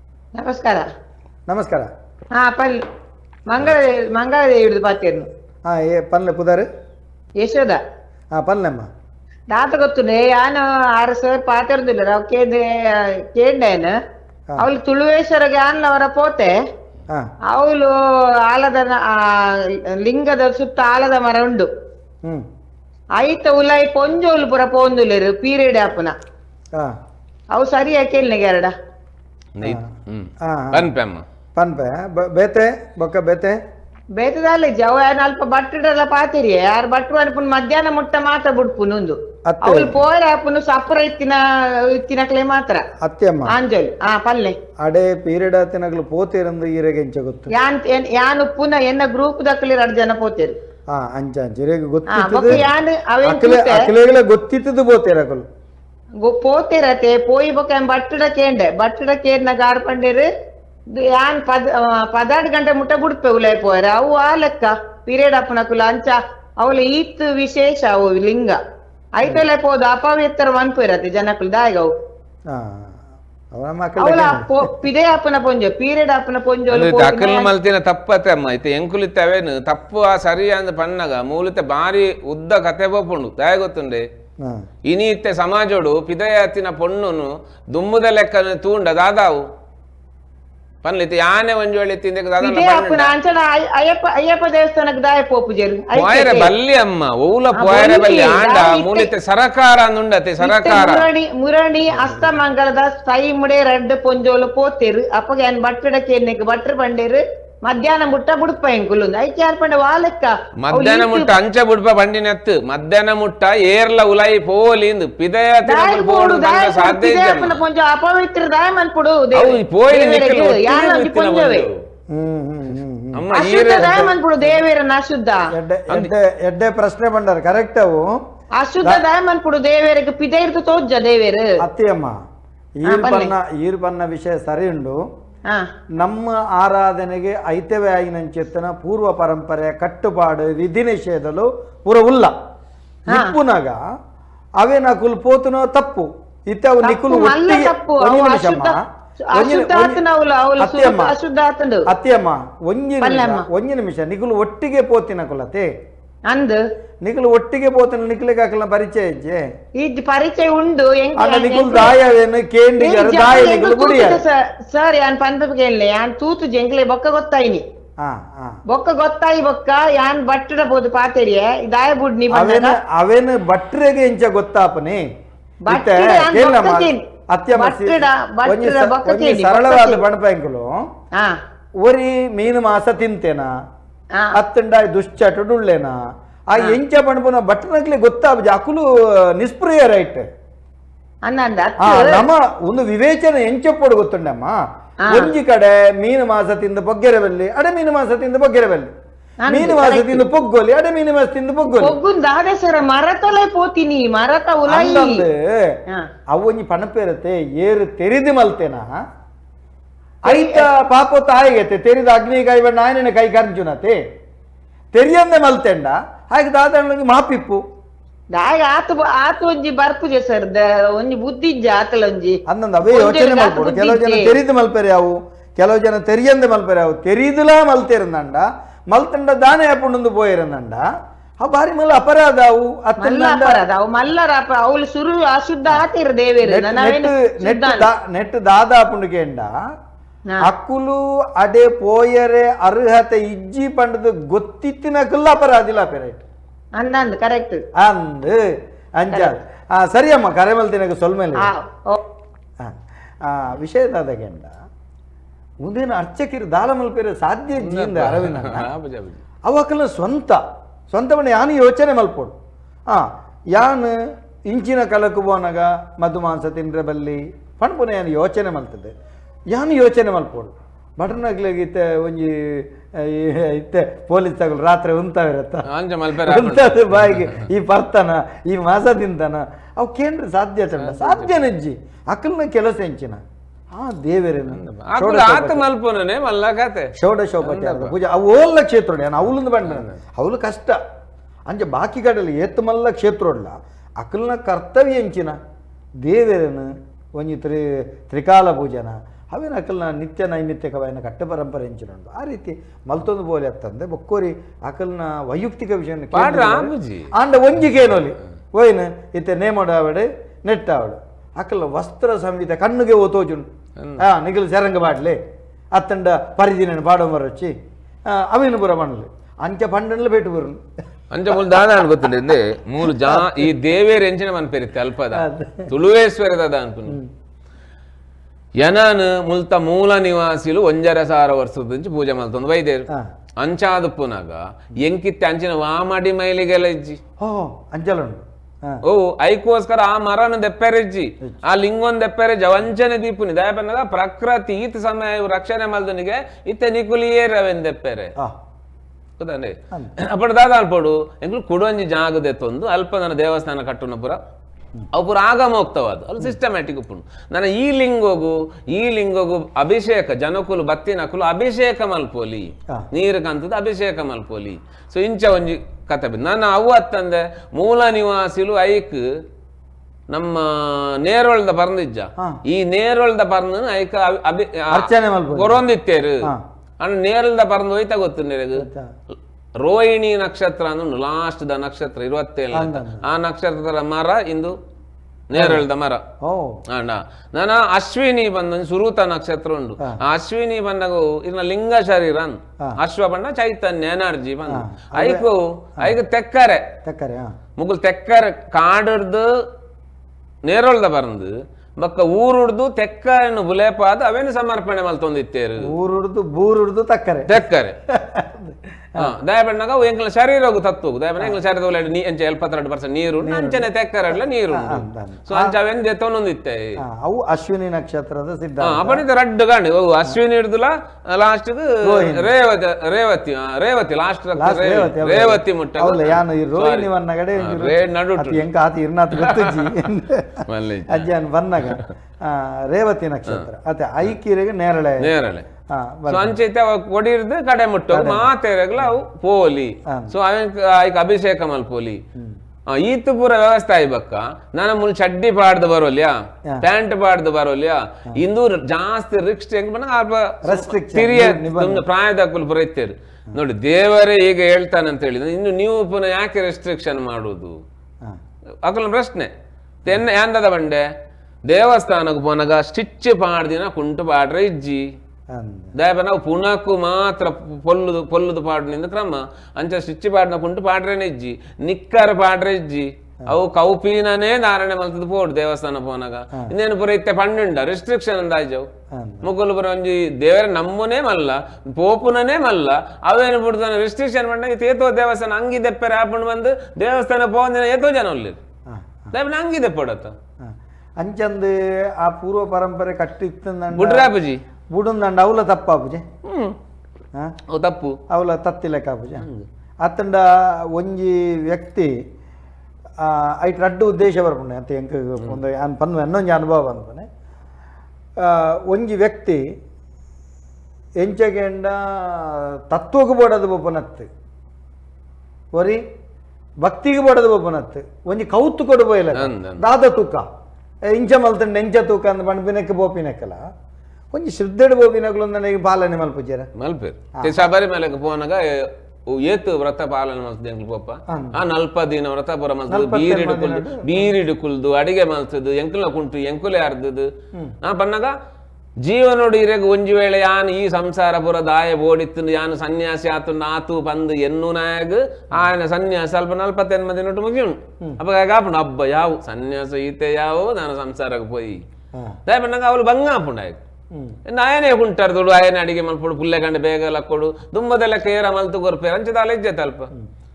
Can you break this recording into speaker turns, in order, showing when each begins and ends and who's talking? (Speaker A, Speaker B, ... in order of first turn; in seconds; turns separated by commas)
Speaker A: 0.3-0.8, Speaker B: 1.5-1.9, Speaker A: 2.4-2.8, Speaker A: 3.5-5.3, Speaker B: 5.7-6.7, Speaker A: 7.4-7.8, Speaker B: 8.3-8.9, Speaker A: 9.5-13.9, Speaker A: 14.6-16.6, Speaker A: 17.5-17.9, Speaker A: 18.4-21.7, Speaker A: 23.2-26.1, Speaker A: 27.5-28.7, Speaker C: 29.6-31.2, Speaker B: 29.6-29.9, Speaker B: 30.4-30.9, Speaker B: 31.6-33.5, Speaker A: 34.1-42.8, Speaker B: 39.4-40.0, Speaker B: 43.0-43.5, Speaker A: 43.5-44.5, Speaker B: 44.8-47.5, Speaker A: 47.5-50.6, Speaker B: 50.9-52.7, Speaker A: 52.1-53.9, Speaker B: 53.2-55.4, Speaker A: 56.2-60.3, Speaker A: 61.0-68.6, Speaker A: 69.2-71.9, Speaker B: 72.5-73.0, Speaker B: 73.5-74.8, Speaker A: 74.0-77.5, Speaker C: 76.7-84.0, Speaker C: 84.8-89.4, Speaker C: 90.8-93.1, Speaker A: 92.4-96.5, Speaker C: 95.9-101.0, Speaker A: 97.5-99.1, Speaker A: 100.4-111.4, Speaker B: 101.9-102.3, Speaker C: 110.6-117.6, Speaker A: 115.6-121.7, Speaker C: 119.3-121.7, Speaker B: 122.1-124.6, Speaker C: 123.1-124.1, Speaker A: 123.3-125.5, Speaker B: 125.5-128.1, Speaker A: 128.6-131.5, Speaker B: 131.6-132.2, Speaker B: 132.8-135.0, Speaker A: 132.8-133.3, Speaker B: 136.0-142.3, Speaker B: 143.1-143.8, Speaker B: 144.6-148.8, Speaker A: 146.8-148.8, Speaker A: 149.3-151.8, Speaker B: 149.3-150.0, Speaker B: 150.6-151.1, Speaker B: 151.9-155.7, Speaker A: 153.0-153.4, Speaker A: 156.3-156.6, Speaker B: 157.0-159.4, Speaker A: 159.8-161.9, Speaker B: 161.2-164.2, Speaker A: 162.8-167.6, Speaker B: 168.0-168.6, Speaker A: 168.7-172.8, Speaker B: 172.3-175.0, Speaker A: 175.7-177.0, Speaker B: 175.7-180.7, Speaker A: 177.6-180.0, Speaker B: 181.8-183.5, Speaker B: 184.3-186.0, Speaker B: 186.5-190.2, Speaker A: 191.3-192.2, Speaker B: 191.8-194.6, Speaker A: 195.1-195.3, Speaker B: 195.1-198.9, Speaker A: 199.5-200.2, Speaker B: 199.5-202.0, Speaker A: 201.7-205.2, Speaker B: 204.7-205.8, Speaker B: 206.3-208.9, Speaker B: 210.2-214.0, Speaker A: 210.2-210.7, Speaker B: 214.9-217.6, Speaker A: 218.3-224.3, Speaker B: 222.4-230.8, Speaker B: 231.4-233.6, Speaker A: 233.0-237.9, Speaker B: 236.4-239.5, Speaker B: 240.4-246.2, Speaker A: 246.8-247.6, Speaker B: 247.8-248.4, Speaker B: 249.0-251.5, Speaker A: 251.5-252.0, Speaker B: 252.6-254.6, Speaker B: 255.6-258.7, Speaker C: 257.5-259.2, Speaker B: 259.4-262.3, Speaker B: 262.9-263.9, Speaker B: 264.5-268.9, Speaker B: 269.5-285.7, Speaker C: 275.7-277.5, Speaker C: 280.8-281.4, Speaker C: 284.5-287.9, Speaker B: 287.0-290.8, Speaker C: 289.6-290.0, Speaker B: 291.5-295.4, Speaker B: 296.0-315.2, Speaker C: 306.1-307.1, Speaker B: 315.7-317.5, Speaker B: 318.1-320.6, Speaker C: 321.1-327.0, Speaker B: 322.9-323.5, Speaker B: 325.1-325.7, Speaker C: 328.6-332.9, Speaker C: 333.4-337.0, Speaker B: 337.2-338.8, Speaker C: 338.9-348.1, Speaker C: 349.2-354.2, Speaker C: 354.9-369.0, Speaker C: 370.1-376.3, Speaker B: 374.7-375.6, Speaker C: 376.8-378.7, Speaker B: 378.5-378.9, Speaker C: 379.6-384.5, Speaker B: 382.5-383.1, Speaker C: 385.3-386.0, Speaker B: 385.3-385.6, Speaker B: 386.2-386.6, Speaker C: 386.7-396.6, Speaker B: 394.5-395.3, Speaker B: 396.8-397.4, Speaker C: 397.6-399.3, Speaker C: 400.4-405.7, Speaker B: 405.6-409.1, Speaker C: 407.3-407.8, Speaker C: 409.0-416.8, Speaker B: 413.2-413.7, Speaker B: 414.5-415.5, Speaker B: 416.8-419.0, Speaker C: 418.6-428.4, Speaker B: 421.8-422.3, Speaker B: 424.3-435.1, Speaker C: 429.2-429.7, Speaker C: 430.4-431.1, Speaker C: 431.6-431.9, Speaker C: 435.0-435.4, Speaker B: 435.7-436.4, Speaker C: 436.1-442.0, Speaker B: 437.9-439.0, Speaker B: 439.9-440.1, Speaker C: 442.7-457.6, Speaker B: 450.4-451.9, Speaker C: 458.6-459.3, Speaker C: 459.8-460.8, Speaker C: 461.5-464.8, Speaker B: 465.3-465.7, Speaker C: 465.8-478.7, Speaker B: 478.9-479.3, Speaker C: 479.2-488.4, Speaker B: 488.7-489.1, Speaker C: 489.1-490.1, Speaker B: 490.4-494.1, Speaker C: 493.7-494.4, Speaker B: 494.7-496.0, Speaker C: 496.2-496.6, Speaker C: 497.5-498.0, Speaker B: 498.1-499.3, Speaker B: 499.8-501.9, Speaker B: 503.0-507.1, Speaker B: 508.2-509.4, Speaker B: 511.0-514.1, Speaker B: 516.6-520.2, Speaker C: 519.1-519.6, Speaker B: 520.9-523.4, Speaker B: 524.1-526.5, Speaker C: 526.6-537.1, Speaker B: 527.1-527.5, Speaker B: 531.1-531.4, Speaker B: 532.7-534.1, Speaker C: 537.6-538.1, Speaker C: 538.8-551.6, Speaker B: 551.9-552.2, Speaker C: 552.3-553.6, Speaker B: 553.9-554.2, Speaker C: 554.3-559.9